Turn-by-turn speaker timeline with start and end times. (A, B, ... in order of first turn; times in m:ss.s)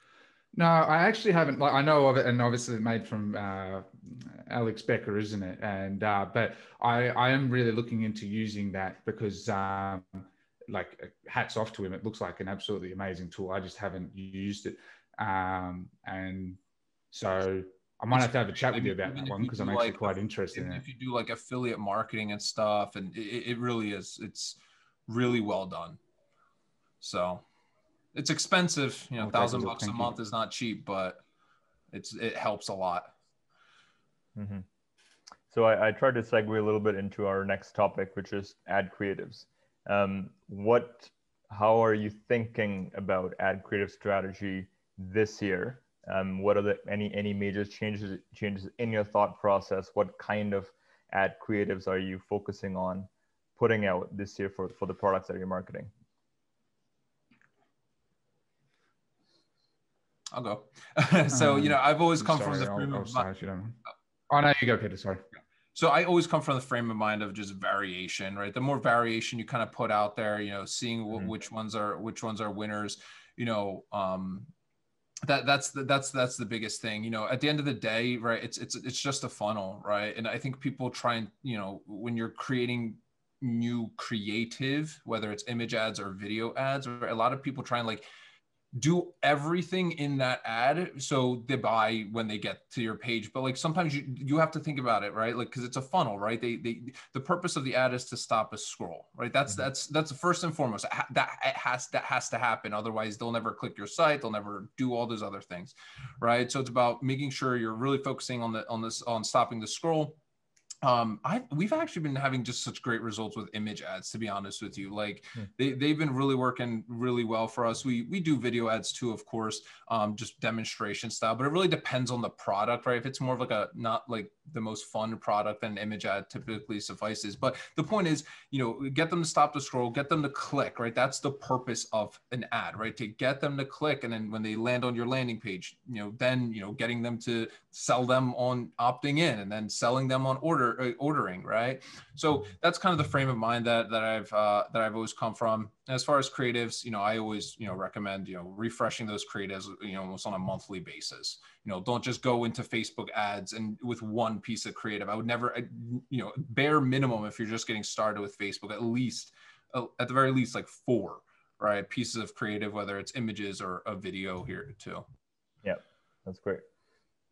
0:00.5-0:16.6 A
0:17.1-0:20.8 A
0:18.1-0:26.0 B
0:27.0-0:27.4 B
0:28.1-0:31.2 B
0:29.2-0:30.1 A
0:31.9-0:33.1 B
0:34.3-0:34.6 C
0:35.5-0:55.9 C
1:00.3-1:03.2 B
1:01.3-1:03.8 A
1:04.3-1:05.2 A
1:05.7-1:14.5 B
1:15.2-1:28.0 B
1:28.7-1:50.2 B
1:50.8-2:45.1 B
2:45.6-2:46.6 C